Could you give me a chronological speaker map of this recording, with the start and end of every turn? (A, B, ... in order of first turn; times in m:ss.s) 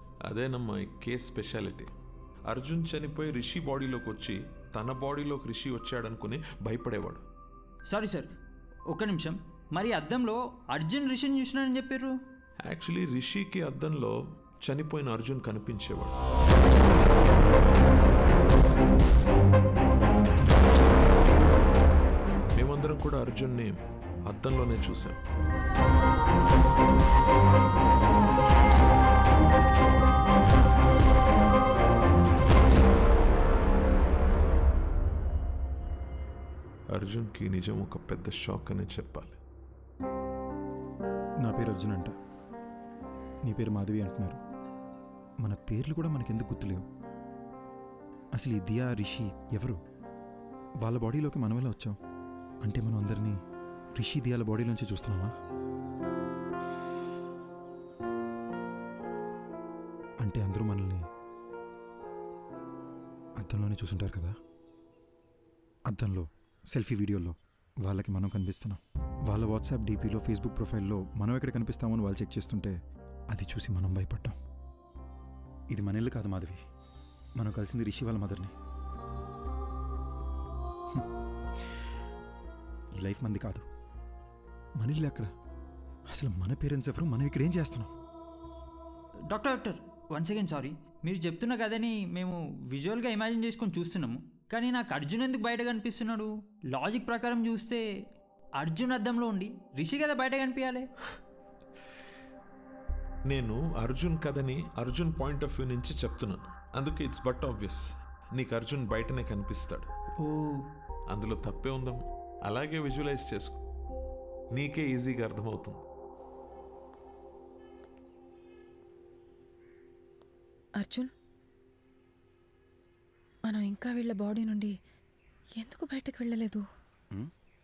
0:00.3-0:01.9 A
0:02.5-0:07.2 A
0:07.9-0:08.3 B
0:08.9-0:12.2 B
0:12.7-0:14.1 A
0:14.7-0:16.2 A
0:22.6-0:25.2 A
0:36.9-0:39.4 A
0:41.4-0:42.1 C
0:43.4-0:44.4 C
0:45.4-0:46.8 C
0:48.4-0:49.8 C
0:50.8-0:52.0 C
0:52.6-0:53.4 C
0:54.0-0:55.3 C
1:00.2-1:01.0 C
1:03.4-1:04.4 C
1:05.9-1:12.8 C
1:13.3-1:14.4 C
1:15.7-1:16.6 C
1:17.4-1:18.5 C
1:23.0-1:23.7 C
1:24.8-1:25.3 C
1:26.1-1:27.9 C
1:29.3-1:37.8 B
1:38.6-1:40.9 B
1:43.3-1:49.9 A
1:50.2-1:50.6 B
1:51.1-1:53.6 A
1:54.6-1:55.8 A
2:00.8-2:01.1 D
2:03.5-2:04.7 D
2:05.6-2:06.6 D